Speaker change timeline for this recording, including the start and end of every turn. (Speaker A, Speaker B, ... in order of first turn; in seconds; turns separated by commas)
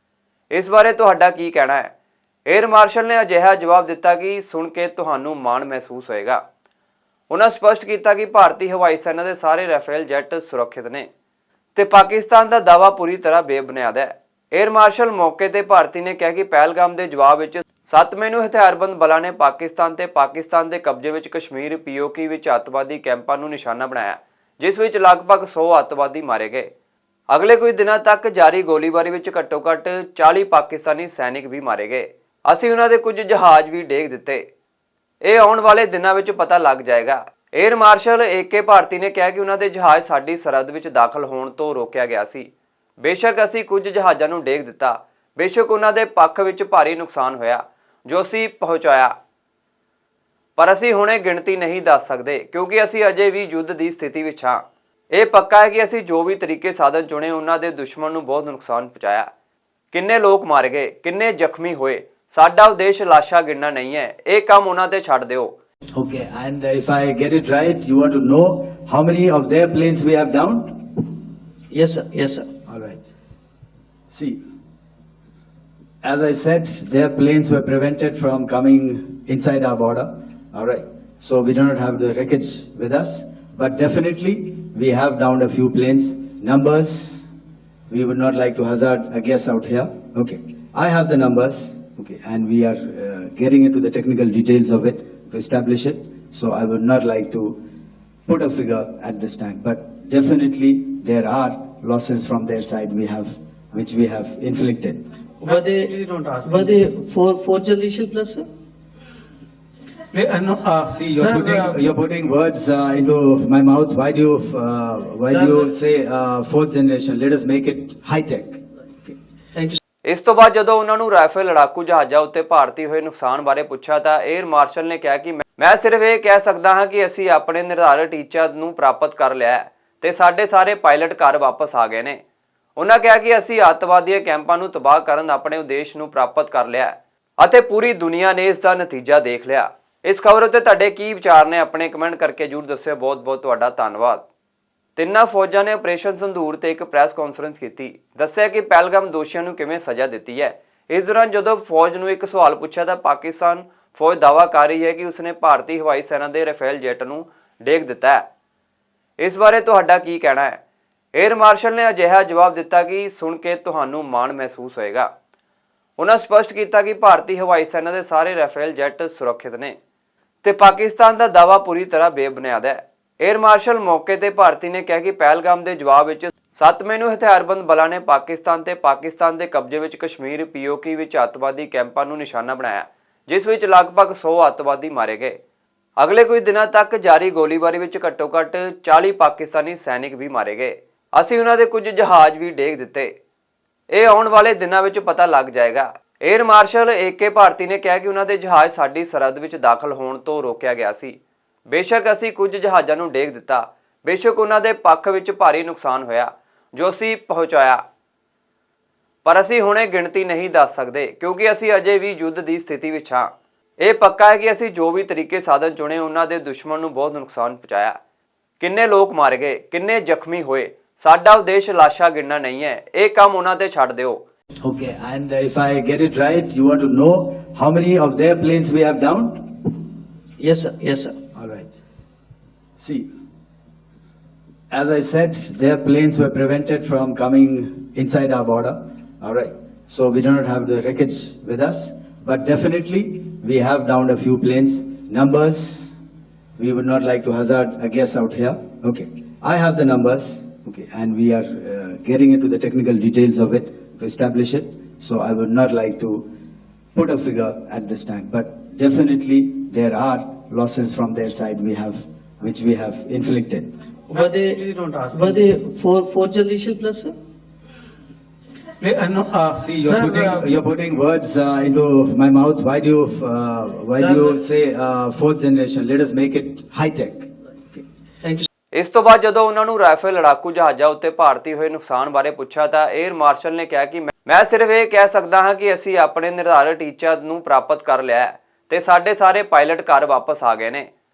Speaker A: 0.5-1.9, Speaker A: 2.5-6.4, Speaker A: 7.3-11.1, Speaker A: 11.7-26.7, Speaker A: 27.3-34.5, Speaker A: 35.2-42.5, Speaker A: 43.0-49.1, Speaker A: 50.6-59.3, Speaker A: 59.9-65.5, Speaker B: 65.9-70.8, Speaker C: 71.7-72.5, Speaker B: 72.7-73.0, Speaker B: 74.1-74.4, Speaker B: 76.0-87.3, Speaker B: 87.9-97.6, Speaker B: 98.3-105.0, Speaker D: 105.4-106.8, Speaker C: 105.5-105.9, Speaker C: 106.5-108.5, Speaker D: 110.1-111.8, Speaker B: 110.9-118.6, Speaker D: 115.3-115.6, Speaker A: 120.1-132.2, Speaker A: 132.8-144.2, Speaker A: 145.0-158.2, Speaker A: 159.2-160.6, Speaker A: 161.2-165.1, Speaker A: 166.0-169.8, Speaker A: 170.4-185.4, Speaker A: 186.0-193.1, Speaker A: 193.9-201.2, Speaker A: 201.7-207.8, Speaker A: 209.2-218.0, Speaker A: 218.6-224.2, Speaker B: 224.6-229.5, Speaker C: 230.4-231.2, Speaker B: 231.3-231.7, Speaker B: 232.8-233.1, Speaker B: 234.7-246.0, Speaker B: 246.6-256.2, Speaker B: 256.9-263.7, Speaker D: 264.1-265.4, Speaker C: 264.1-264.6, Speaker C: 265.1-267.1, Speaker D: 268.8-270.5, Speaker B: 269.6-277.8, Speaker D: 274.0-274.3, Speaker A: 278.7-290.9